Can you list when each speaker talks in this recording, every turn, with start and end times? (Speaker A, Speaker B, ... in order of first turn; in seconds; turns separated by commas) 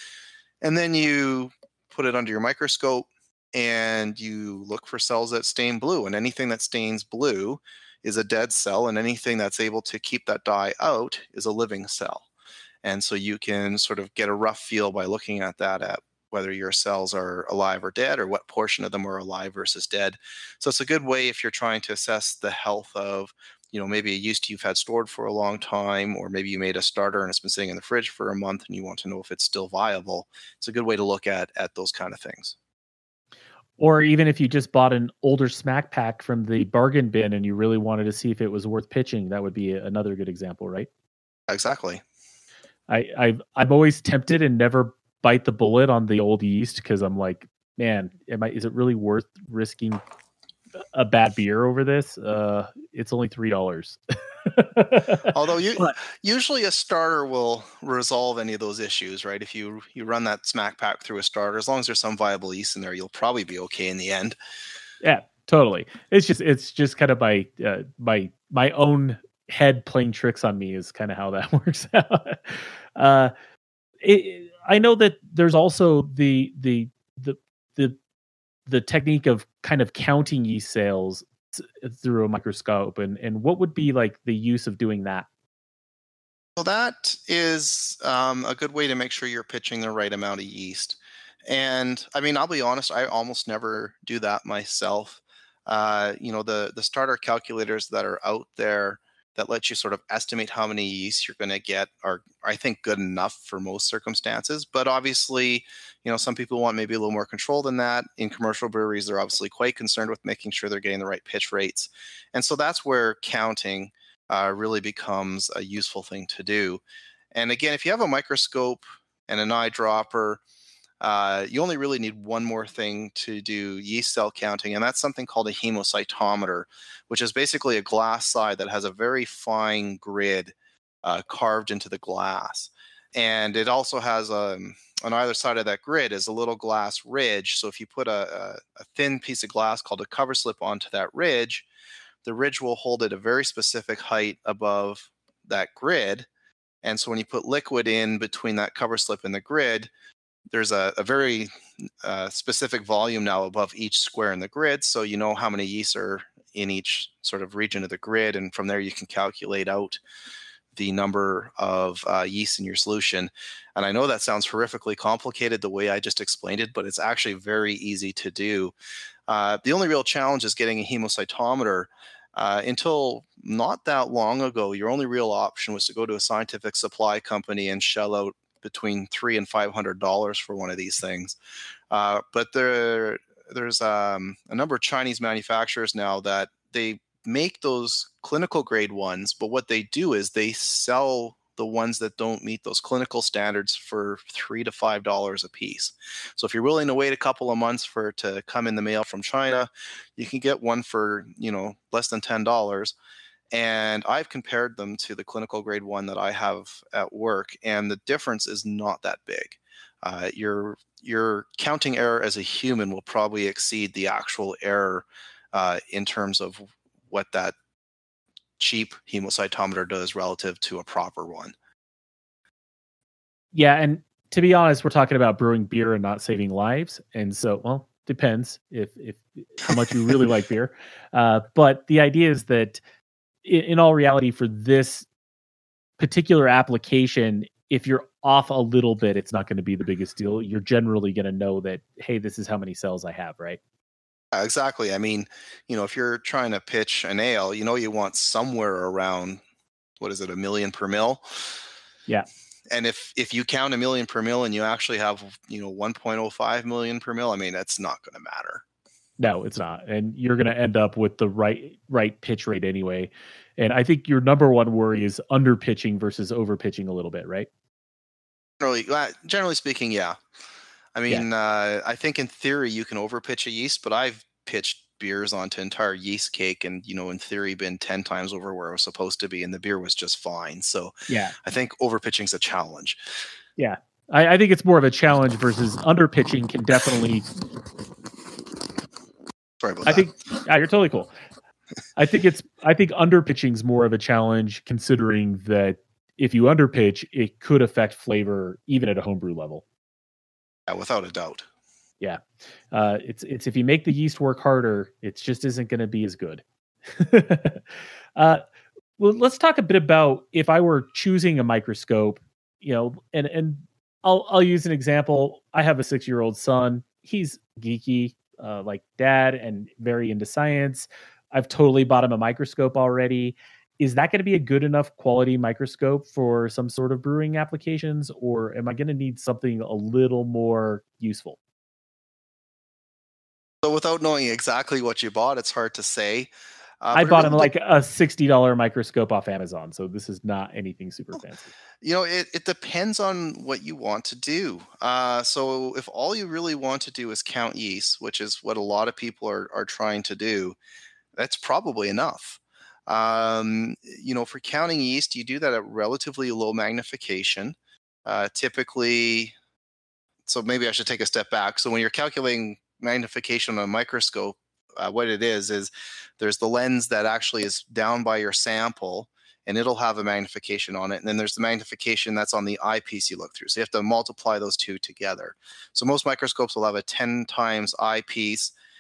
Speaker A: 0.6-12.3, Speaker A: 12.8-32.6, Speaker B: 33.8-40.9, Speaker A: 41.5-42.0, Speaker B: 42.9-50.0, Speaker B: 50.9-56.0, Speaker A: 55.3-64.4, Speaker B: 65.0-73.3, Speaker B: 74.0-78.0, Speaker B: 78.7-85.3, Speaker A: 86.6-120.4, Speaker A: 121.0-141.7, Speaker A: 142.2-146.3, Speaker A: 146.8-149.9, Speaker A: 150.5-151.5, Speaker A: 152.0-160.0, Speaker A: 160.8-168.7, Speaker A: 169.3-181.4, Speaker A: 181.9-202.9, Speaker A: 203.5-217.6, Speaker A: 218.6-221.5, Speaker B: 223.5-232.8, Speaker B: 233.4-235.1, Speaker B: 236.0-243.6, Speaker A: 244.3-249.4, Speaker A: 250.0-251.6, Speaker A: 252.7-258.6, Speaker B: 259.2-267.5, Speaker A: 268.6-270.2, Speaker A: 270.9-283.0, Speaker B: 281.1-281.4, Speaker B: 283.6-287.3, Speaker A: 289.6-290.1, Speaker B: 289.9-291.1, Speaker B: 292.0-299.6, Speaker A: 300.7-301.5, Speaker B: 302.0-307.6, Speaker B: 308.2-308.4, Speaker B: 309.0-331.4, Speaker A: 333.6-337.5, Speaker B: 336.9-341.5, Speaker A: 341.8-350.6, Speaker A: 351.2-359.4, Speaker A: 360.3-378.5